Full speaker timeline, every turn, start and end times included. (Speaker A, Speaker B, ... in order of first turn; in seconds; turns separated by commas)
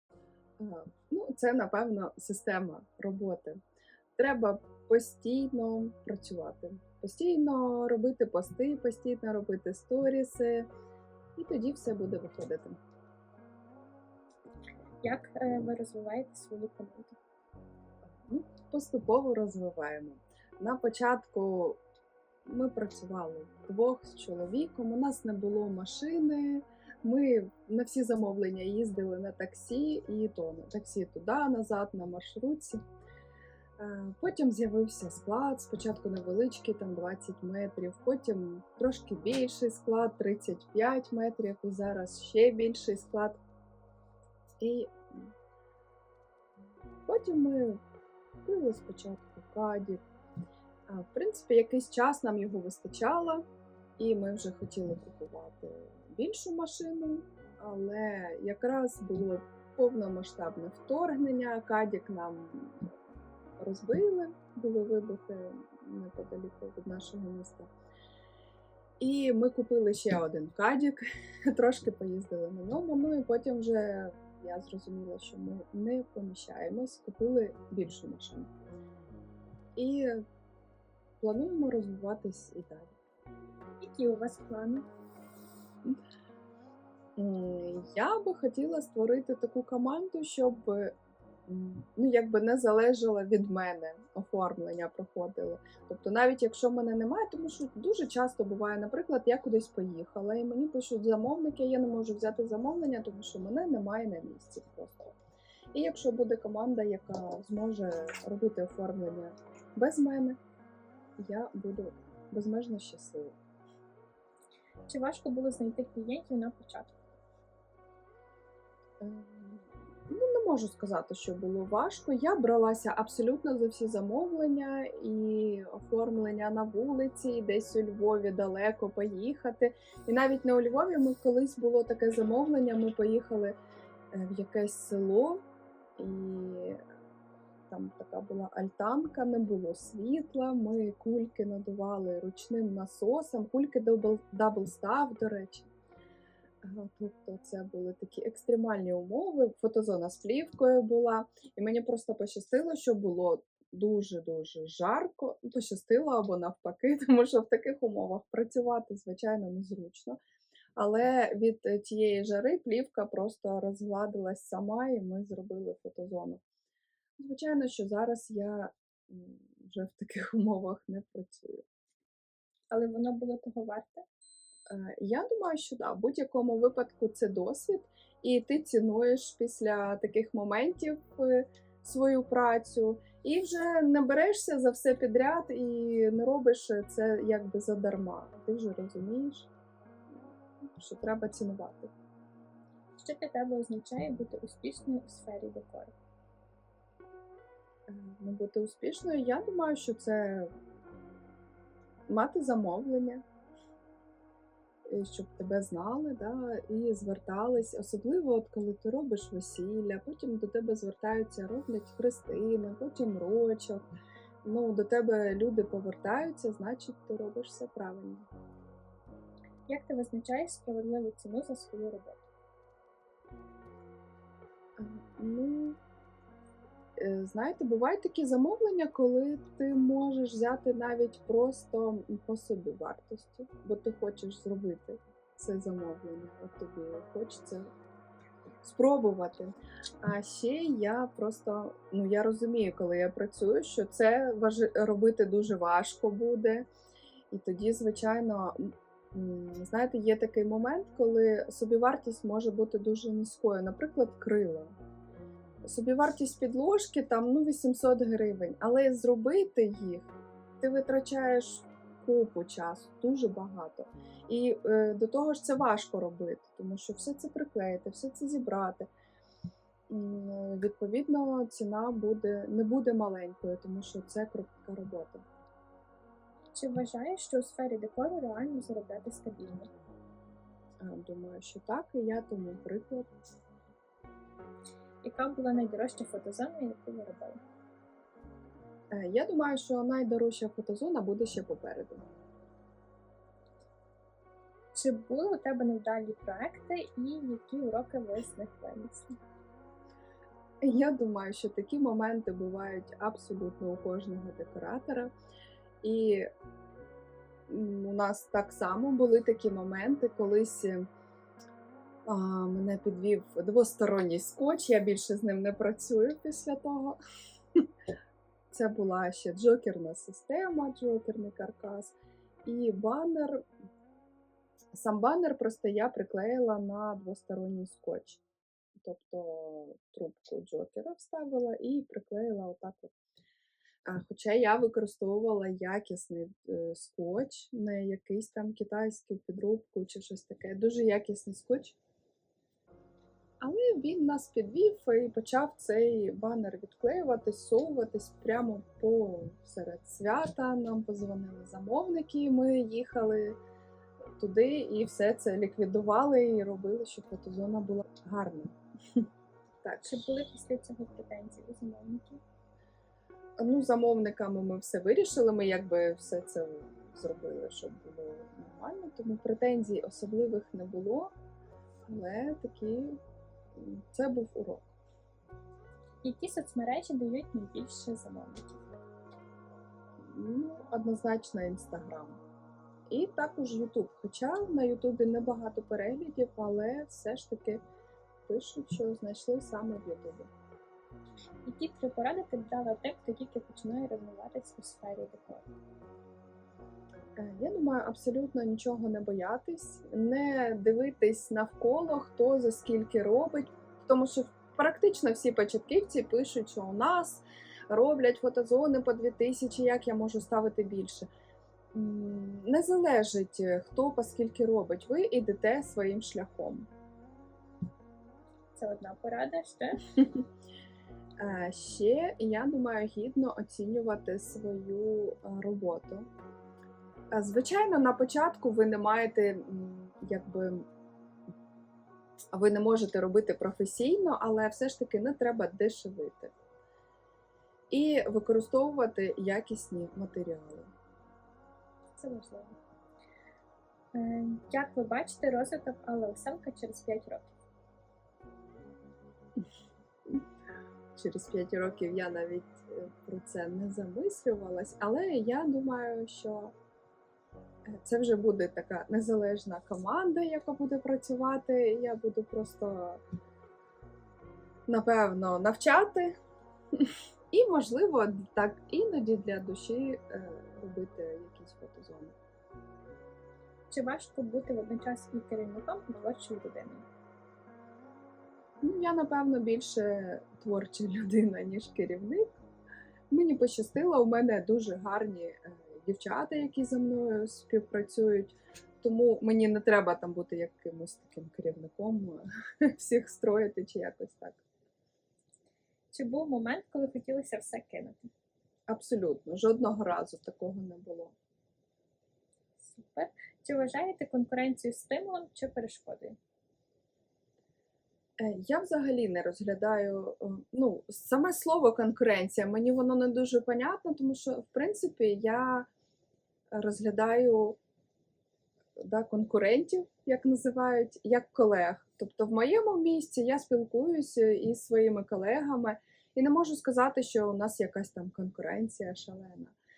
Speaker A: 0.6-3.6, Speaker A: 4.2-10.7, Speaker A: 11.3-12.8, Speaker B: 15.0-17.2, Speaker A: 18.2-21.8, Speaker A: 22.4-32.8, Speaker A: 33.8-43.4, Speaker A: 44.6-45.3, Speaker A: 47.0-47.8, Speaker A: 48.4-50.0, Speaker A: 50.9-53.4, Speaker A: 54.0-62.9, Speaker A: 63.6-67.7, Speaker A: 69.0-78.5, Speaker A: 79.8-80.2, Speaker A: 81.2-83.0, Speaker B: 83.8-84.9, Speaker A: 87.2-90.9, Speaker A: 91.5-105.1, Speaker A: 105.7-110.4, Speaker A: 111.2-113.3, Speaker B: 114.9-117.0, Speaker A: 119.0-133.6, Speaker A: 134.1-135.4, Speaker A: 136.0-136.8, Speaker A: 137.7-145.7, Speaker A: 146.6-160.2, Speaker A: 160.8-166.4, Speaker A: 167.2-171.6, Speaker B: 172.7-174.0, Speaker A: 174.7-189.5, Speaker A: 190.1-191.9, Speaker B: 193.0-195.9, Speaker A: 197.9-200.5, Speaker A: 202.1-203.2, Speaker A: 204.9-213.8, Speaker A: 214.4-218.3, Speaker B: 219.7-222.2, Speaker A: 224.8-225.8, Speaker A: 227.0-237.7, Speaker A: 238.6-246.7, Speaker A: 247.3-254.7, Speaker A: 255.6-268.9, Speaker A: 269.9-275.2, Speaker B: 276.5-279.7, Speaker A: 280.8-283.1, Speaker B: 285.0-287.4, Speaker A: 288.9-292.0, Speaker B: 294.7-299.1, Speaker A: 300.6-305.1, Speaker A: 305.8-306.3, Speaker A: 307.5-310.9, Speaker A: 312.1-317.0, Speaker A: 318.5-323.4, Speaker A: 324.7-328.2, Speaker A: 328.8-332.9, Speaker A: 333.9-341.8, Speaker A: 343.4-353.4, Speaker A: 354.2-359.0, Speaker A: 359.6-359.9, Speaker B: 359.8-362.2, Speaker A: 363.4-371.1, Speaker A: 371.9-373.0, Speaker A: 373.5-374.7, Speaker B: 376.0-378.7, Speaker A: 380.0-382.2, Speaker A: 382.9-387.6, Speaker A: 388.2-390.3, Speaker B: 391.4-395.5, Speaker A: 397.2-411.1, Speaker A: 411.7-416.7, Speaker B: 418.5-419.8, Speaker A: 421.2-426.1, Speaker A: 427.1-430.7, Speaker A: 432.3-436.3, Speaker A: 437.7-440.7, Speaker B: 441.9-442.6, Speaker B: 443.9-447.3, Speaker A: 450.9-456.5, Speaker A: 457.7-463.0, Speaker A: 464.7-466.1, Speaker A: 466.7-472.1, Speaker B: 473.7-476.9, Speaker A: 478.6-482.3, Speaker A: 483.1-494.4, Speaker B: 495.9-498.1, Speaker A: 498.7-501.1, Speaker B: 502.6-506.2, Speaker A: 508.2-515.7, Speaker A: 516.5-517.6, Speaker A: 518.8-529.5